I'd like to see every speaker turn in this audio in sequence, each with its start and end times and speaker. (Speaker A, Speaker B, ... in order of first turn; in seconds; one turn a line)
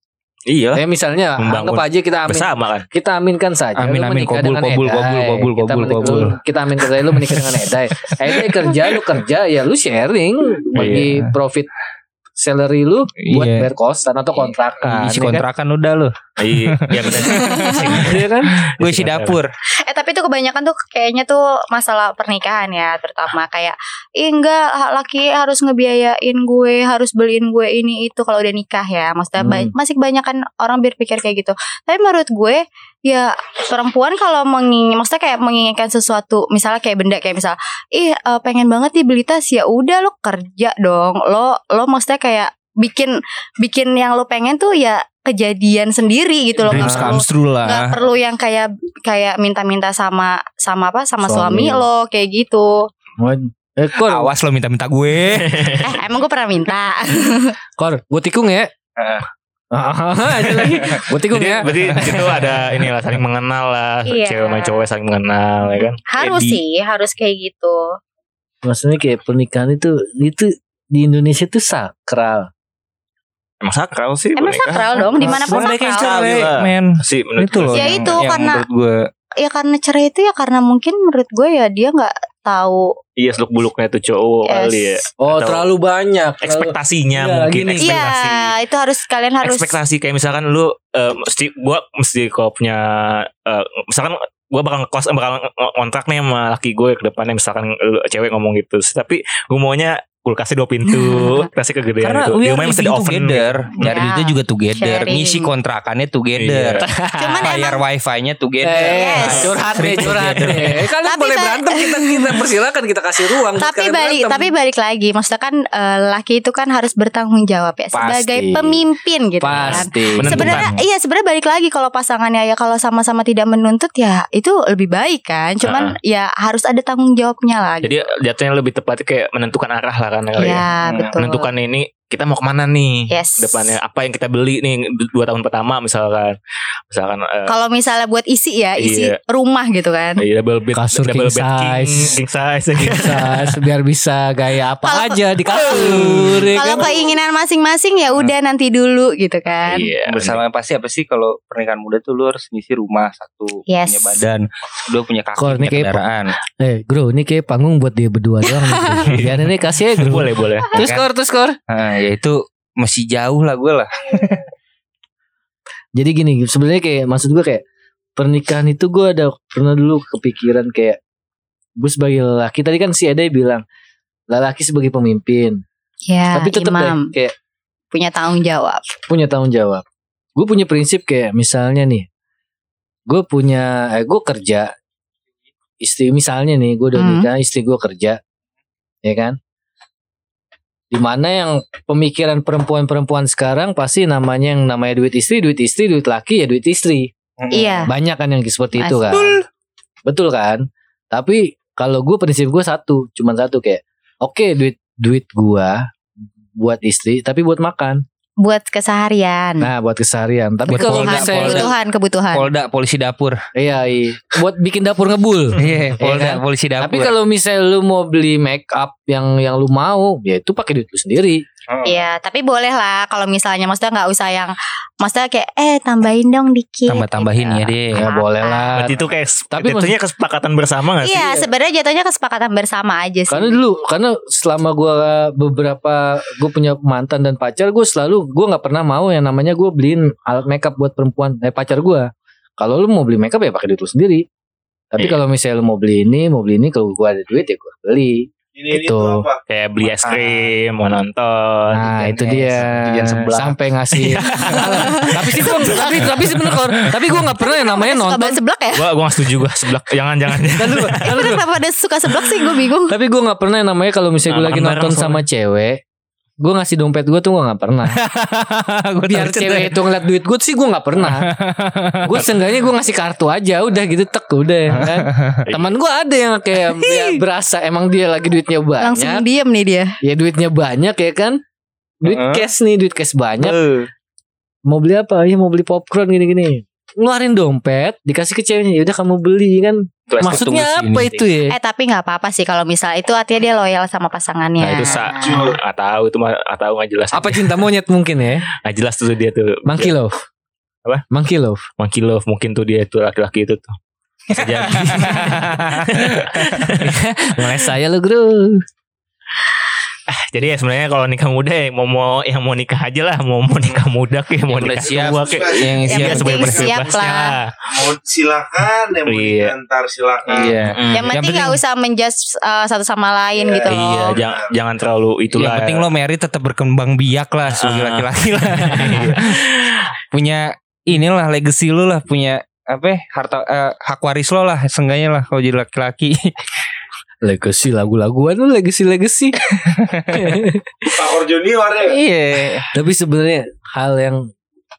Speaker A: 0.5-0.8
Speaker B: 0.8-11.7
Speaker A: 1.4-2.9
Speaker C: 3.8-6.4
Speaker C: 7.1-7.4
Speaker A: 10.8-11.1
Speaker C: 10.9-11.3
Speaker B: 12.4-15.4
Speaker C: 13.2-13.7
Speaker C: 14.8-19.5
Speaker A: 16.4-19.4
Speaker D: 17.4-17.8
Speaker B: 17.9-18.5
Speaker D: 19.9-52.9
Speaker B: 29.4-29.7
Speaker C: 46.7-48.0
Speaker B: 46.7-47.2
Speaker B: 51.2-51.9
Speaker B: 53.2-54.3
Speaker C: 54.0-55.8
Speaker A: 55.3-55.9
Speaker D: 55.8-57.5
Speaker B: 57.8-58.7
Speaker C: 59.0-59.2
Speaker B: 59.7-62.4
Speaker C: 60.5-61.0
Speaker A: 61.3-66.0
Speaker C: 61.6-62.6
Speaker D: 64.1-64.9
Speaker D: 66.1-68.0
Speaker C: 66.2-66.6
Speaker B: 68.6-72.5
Speaker A: 73.6-74.9
Speaker D: 74.4-76.1
Speaker B: 75.1-75.6
Speaker C: 75.2-79.0
Speaker A: 75.5-78.2
Speaker D: 77.8-78.6
Speaker D: 79.4-82.9
Speaker A: 83.2-85.7
Speaker D: 84.5-85.0
Speaker B: 85.2-88.0
Speaker A: 86.4-88.5
Speaker D: 87.8-89.8
Speaker A: 89.4-103.7
Speaker D: 100.9-101.5
Speaker C: 102.0-106.9
Speaker D: 103.8-105.5
Speaker A: 106.4-106.9
Speaker B: 106.8-107.5
Speaker D: 107.2-107.8
Speaker C: 107.4-110.8
Speaker B: 108.6-114.5
Speaker D: 108.8-109.6
Speaker D: 111.0-112.3
Speaker D: 113.6-128.0
Speaker B: 117.9-118.8
Speaker B: 119.4-120.6
Speaker A: 119.5-120.7
Speaker C: 120.3-120.8
Speaker A: 125.6-126.0
Speaker A: 127.8-130.6
Speaker D: 130.4-131.5
Speaker C: 130.8-131.2
Speaker A: 131.2-136.4
Speaker D: 133.1-133.7
Speaker A: 136.9-137.5
Speaker D: 137.5-140.2
Speaker A: 138.8-139.2
Speaker A: 140.2-143.6
Speaker B: 140.8-142.2
Speaker B: 142.8-146.9
Speaker D: 144.8-149.9
Speaker C: 145.8-146.5
Speaker A: 149.7-150.4
Speaker C: 150.1-156.3
Speaker D: 153.7-154.2
Speaker B: 155.4-156.0
Speaker B: 156.6-161.6
Speaker A: 159.1-160.8
Speaker C: 160.8-161.1
Speaker C: 161.7-164.5
Speaker B: 165.9-167.6
Speaker B: 168.2-171.0
Speaker B: 171.8-173.6
Speaker B: 174.3-175.6
Speaker D: 176.1-177.1
Speaker B: 176.3-177.3
Speaker D: 177.9-178.8
Speaker B: 179.1-179.8
Speaker B: 180.4-182.1
Speaker B: 183.1-184.7
Speaker B: 185.8-188.2
Speaker D: 187.0-187.3
Speaker B: 189.0-189.4
Speaker B: 190.9-197.1
Speaker C: 197.4-197.8
Speaker D: 197.5-197.9
Speaker B: 197.9-199.3
Speaker D: 198.8-199.4
Speaker B: 200.1-205.9
Speaker B: 206.6-208.0
Speaker D: 208.4-209.7
Speaker B: 209.6-211.7
Speaker D: 210.7-212.5
Speaker C: 210.7-211.7
Speaker C: 212.3-213.4
Speaker B: 213.6-221.4
Speaker C: 215.6-217.2
Speaker C: 221.7-222.0
Speaker D: 221.8-228.8
Speaker C: 226.9-228.1
Speaker B: 227.9-229.9
Speaker A: 228.8-231.4
Speaker D: 231.0-233.6
Speaker B: 233.3-244.3
Speaker B: 244.9-249.2
Speaker E: 248.6-249.4
Speaker A: 249.5-256.1
Speaker C: 250.0-250.5
Speaker B: 251.7-258.4
Speaker C: 251.8-253.5
Speaker C: 254.5-254.8
Speaker D: 254.6-255.9
Speaker C: 256.2-256.9
Speaker D: 257.4-258.9
Speaker A: 258.8-261.3
Speaker B: 260.5-261.4
Speaker D: 261.0-262.9
Speaker B: 262.9-265.8
Speaker A: 264.3-265.2
Speaker B: 266.4-268.0
Speaker C: 267.9-269.9
Speaker B: 269.1-271.3
Speaker C: 271.0-272.3
Speaker B: 272.0-279.2
Speaker C: 274.7-275.5
Speaker A: 275.5-275.7
Speaker D: 278.8-280.0
Speaker B: 280.0-281.4
Speaker B: 282.0-283.6
Speaker C: 282.1-282.5
Speaker A: 283.4-283.9
Speaker B: 284.7-291.6
Speaker A: 290.1-290.6
Speaker C: 290.2-291.3
Speaker D: 291.5-295.5
Speaker A: 294.6-297.7
Speaker E: 295.1-295.6
Speaker B: 297.1-298.5
Speaker A: 298.6-299.9
Speaker B: 299.7-300.1
Speaker B: 301.1-301.6
Speaker A: 301.8-303.8
Speaker A: 304.3-306.9
Speaker C: 304.4-306.8
Speaker B: 306.8-308.6
Speaker A: 310.1-317.6
Speaker C: 314.5-316.9
Speaker E: 314.8-316.5
Speaker D: 315.9-317.4
Speaker E: 317.7-320.8
Speaker A: 319.1-319.6
Speaker C: 320.3-321.6
Speaker A: 320.4-321.1
Speaker D: 320.9-324.2
Speaker E: 323.4-324.5
Speaker A: 323.7-325.8
Speaker C: 325.4-329.5
Speaker A: 327.5-329.9
Speaker C: 330.1-336.3
Speaker B: 337.2-340.9
Speaker C: 339.8-340.4
Speaker E: 340.9-342.0
Speaker C: 341.8-342.7
Speaker B: 342.7-344.3